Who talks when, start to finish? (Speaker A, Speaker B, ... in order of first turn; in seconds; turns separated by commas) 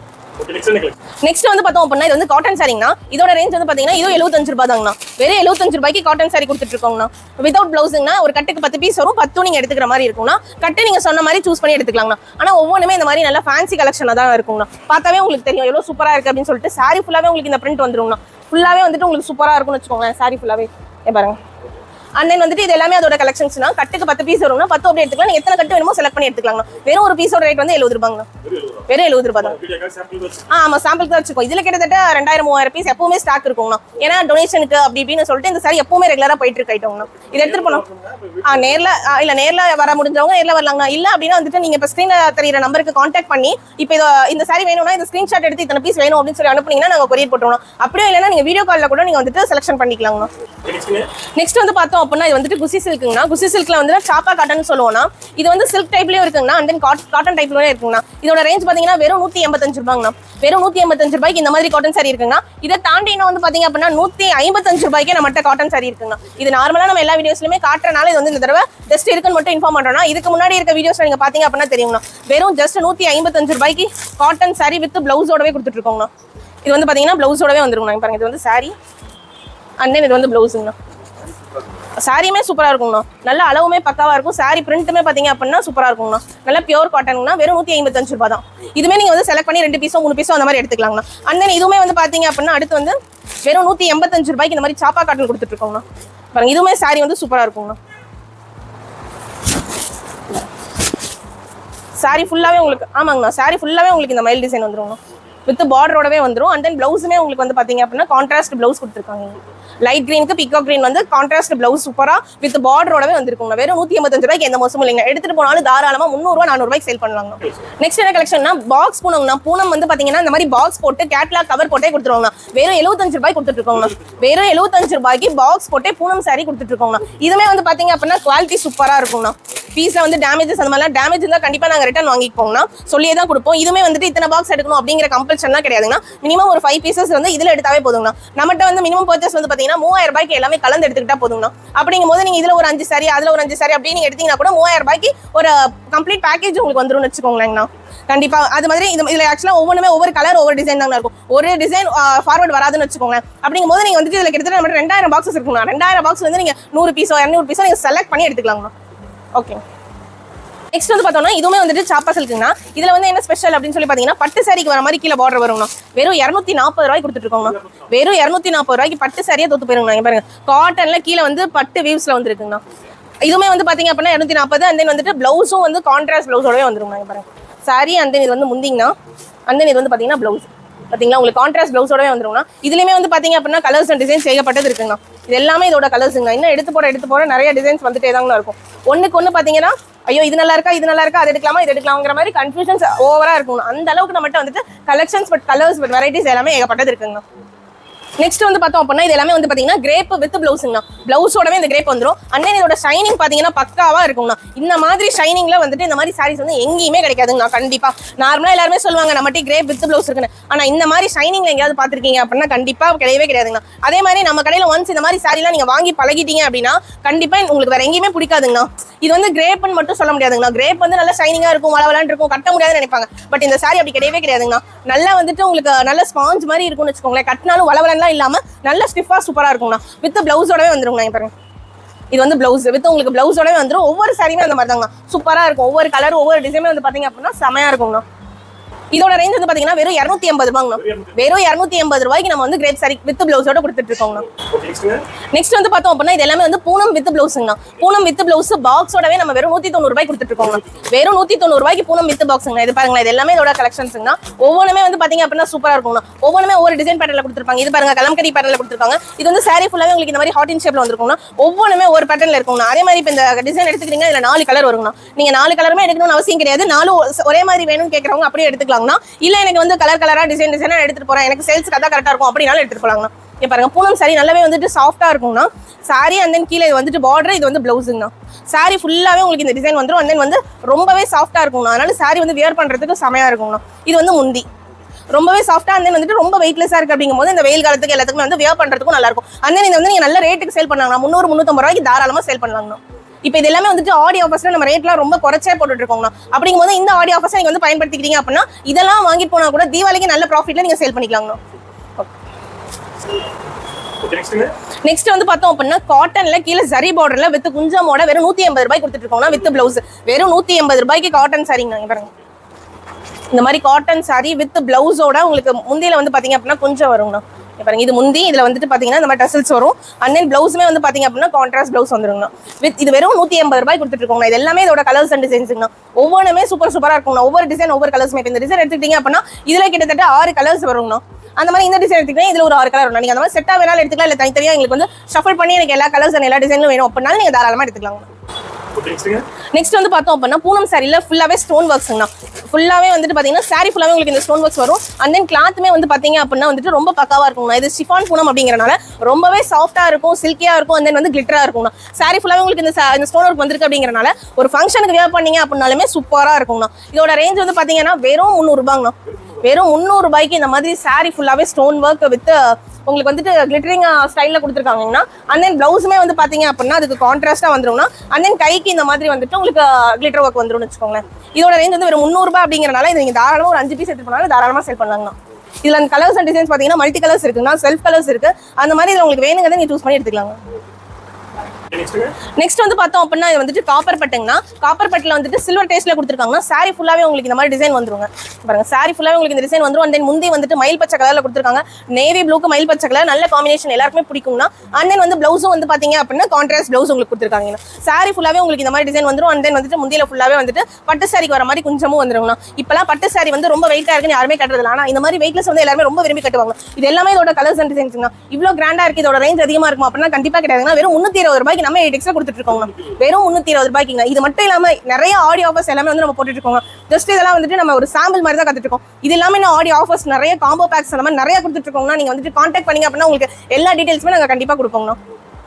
Speaker A: 0.4-0.9, Speaker B: 1.2-21.4, Speaker B: 22.2-28.3, Speaker A: 28.4-28.9, Speaker B: 28.9-29.6, Speaker A: 29.4-30.5, Speaker B: 30.5-37.8, Speaker A: 37.3-38.9, Speaker B: 38.4-50.3, Speaker A: 50.6-51.1, Speaker B: 51.4-76.1, Speaker B: 76.6-78.8, Speaker B: 79.8-80.8, Speaker B: 82.0-97.8, Speaker B: 102.0-158.7, Speaker B: 159.3-159.6, Speaker B: 160.7-172.6, Speaker B: 173.2-178.9, Speaker B: 179.5-197.2, Speaker B: 198.2-231.3, Speaker B: 232.1-238.0, Speaker B: 238.9-244.3, Speaker A: 240.8-241.2, Speaker A: 244.4-245.0, Speaker B: 245.3-284.5, Speaker B: 285.1-301.4, Speaker A: 304.0-304.5, Speaker B: 304.9-312.1, Speaker B: 313.3-338.1, Speaker A: 338.7-339.2, Speaker B: 339.5-380.4, Speaker A: 381.7-382.1, Speaker B: 382.4-425.0